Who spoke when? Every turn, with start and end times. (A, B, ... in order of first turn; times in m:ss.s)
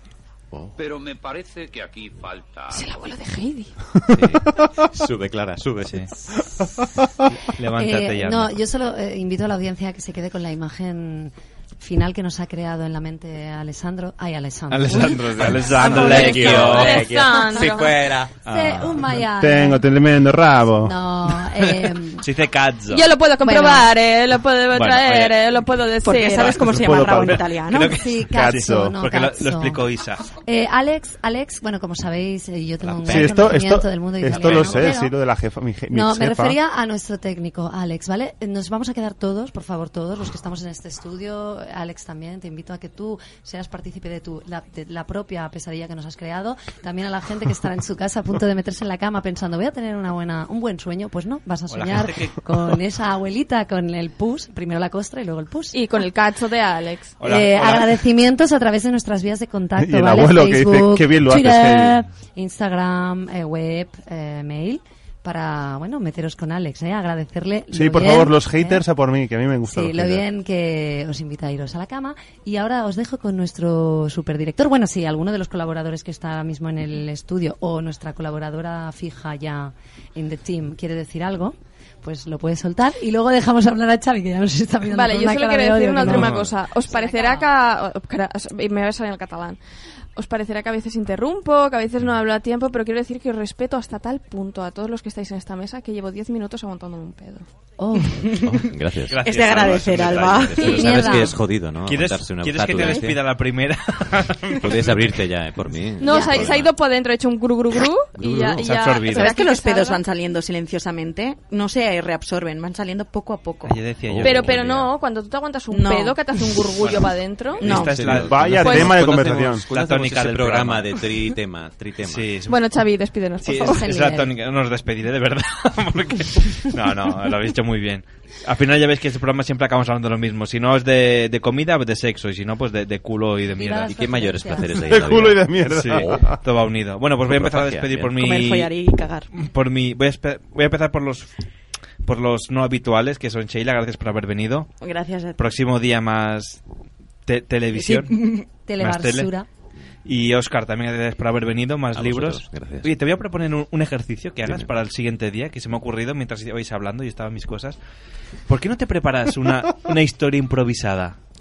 0:00.8-0:03.0 A
0:02.7-0:03.7 B
0:04.1-0:06.1 C
0:07.5-0:08.6 D
0:07.8-0:17.7 E
0:14.7-0:17.1 D
0:16.0-0:18.0 B
0:16.2-0:17.1 C
0:17.7-0:18.3 C
0:18.4-0:19.8 E
0:18.5-0:19.0 D
0:19.4-0:21.0 F
0:20.8-0:22.2 E
0:21.6-0:23.1 D
0:22.9-0:26.6 B
0:23.4-0:23.9 E
0:24.7-0:25.6 D
0:26.0-0:28.0 G
0:26.6-0:27.4 F
0:27.2-0:30.2 D
0:27.9-0:29.9 E
0:28.3-0:28.9 F
0:30.4-0:35.1 E
0:33.0-0:33.6 D
0:33.0-0:36.6 F
0:34.3-0:34.9 D
0:35.9-0:55.8 E
0:51.7-0:52.8 D
0:55.7-0:57.2 B
0:57.2-0:57.9 D
0:57.2-1:08.8 E
0:59.8-1:02.0 F
1:07.7-1:10.2 F
1:09.7-1:26.4 E
1:24.9-1:29.6 B
1:26.0-1:26.6 D
1:26.9-1:27.5 E
1:30.2-1:37.5 B
1:37.8-1:38.3 E
1:38.1-1:38.7 G
1:38.4-1:43.2 C
1:39.1-1:41.3 D
1:39.2-1:40.7 G
1:40.6-1:41.4 E
1:41.8-1:45.1 D
1:44.6-1:46.7 C
1:46.0-1:50.0 B
1:46.1-1:46.4 E
1:48.2-1:48.6 C
1:48.4-1:49.4 D
1:49.1-1:53.8 G
1:53.7-1:54.8 D
1:54.1-1:54.9 C
1:54.2-1:57.9 B
1:55.7-1:56.2 G
1:56.8-1:57.1 D
1:57.6-2:01.1 D
1:57.6-2:02.3 C
1:57.6-1:58.0 G
1:58.0-1:59.7 F
1:58.6-1:58.9 B
2:02.1-2:02.6 D
2:02.5-2:03.9 B
2:03.4-2:14.0 D
2:03.5-2:04.3 E
2:13.6-2:15.0 E
2:13.9-2:16.2 C
2:14.7-2:16.3 F
2:15.7-2:18.7 D
2:17.3-2:18.1 C
2:18.1-2:19.3 G
2:19.3-2:21.3 D
2:22.0-2:24.7 D
2:24.8-2:25.4 G
2:25.4-2:26.6 D
2:27.3-2:28.2 D
2:27.7-2:28.4 G
2:28.7-2:29.5 E
2:28.8-2:29.3 D
2:30.0-2:37.8 D
2:31.9-2:33.0 C
2:34.4-2:34.7 C
2:38.5-2:41.2 D